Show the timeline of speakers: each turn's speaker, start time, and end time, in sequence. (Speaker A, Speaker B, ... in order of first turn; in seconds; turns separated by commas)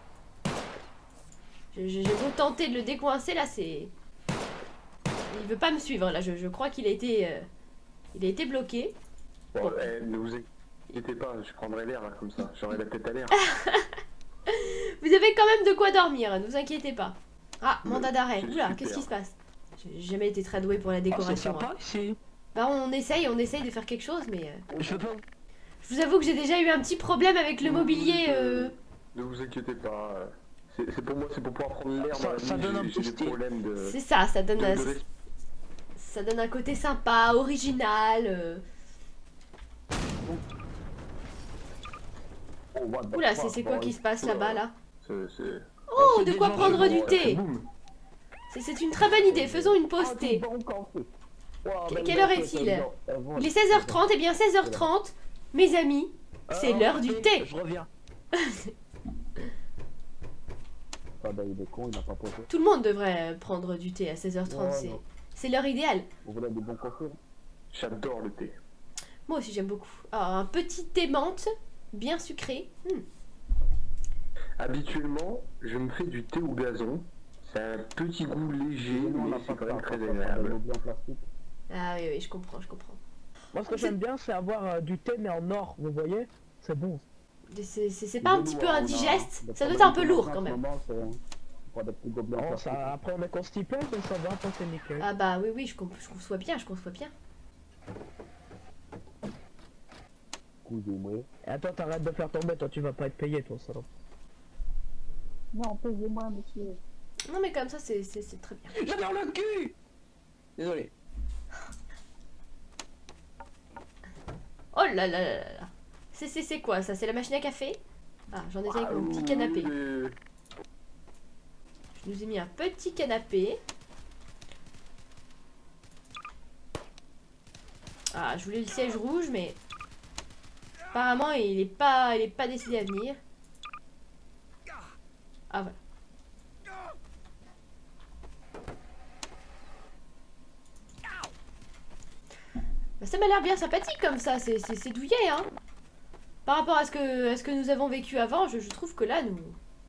Speaker A: 1.7-3.9, Speaker A: 5.3-7.5, Speaker A: 8.1-8.9, Speaker B: 9.5-13.4, Speaker A: 9.6-9.9, Speaker A: 13.4-13.9, Speaker A: 14.5-21.8, Speaker B: 17.8-19.1, Speaker C: 21.1-22.2, Speaker A: 22.6-24.6, Speaker C: 24.8-25.2, Speaker A: 25.8-28.7, Speaker B: 27.6-34.0, Speaker C: 32.0-33.4, Speaker A: 33.8-35.0, Speaker B: 34.6-35.0, Speaker A: 36.0-38.6, Speaker D: 42.7-44.0, Speaker A: 43.1-44.7, Speaker B: 44.2-45.7, Speaker A: 45.9-47.4, Speaker C: 46.0-47.1, Speaker B: 46.5-47.7, Speaker A: 48.5-50.4, Speaker D: 49.3-51.1, Speaker C: 51.6-52.1, Speaker D: 51.9-54.0, Speaker A: 51.9-57.5, Speaker D: 54.6-54.9, Speaker C: 56.5-57.9, Speaker A: 58.3-58.7, Speaker D: 61.2-62.5, Speaker A: 62.5-66.1, Speaker D: 64.5-65.0, Speaker D: 66.2-67.2, Speaker B: 67.7-68.6, Speaker A: 69.3-73.0, Speaker B: 74.6-80.6, Speaker D: 78.8-81.3, Speaker A: 81.7-83.0, Speaker E: 83.5-87.0, Speaker A: 83.7-84.0, Speaker A: 87.5-90.6, Speaker D: 88.2-92.9, Speaker E: 92.4-95.1, Speaker A: 95.0-97.1, Speaker D: 100.6-101.3, Speaker E: 101.5-103.9, Speaker D: 105.5-106.8, Speaker A: 107.3-108.7, Speaker C: 108.8-109.8, Speaker C: 110.6-110.9, Speaker A: 114.7-117.8, Speaker A: 118.3-119.7, Speaker B: 118.7-120.2, Speaker A: 122.0-123.6, Speaker A: 128.1-129.6, Speaker A: 130.9-133.2, Speaker A: 135.5-135.8, Speaker A: 143.0-145.5, Speaker A: 146.5-149.6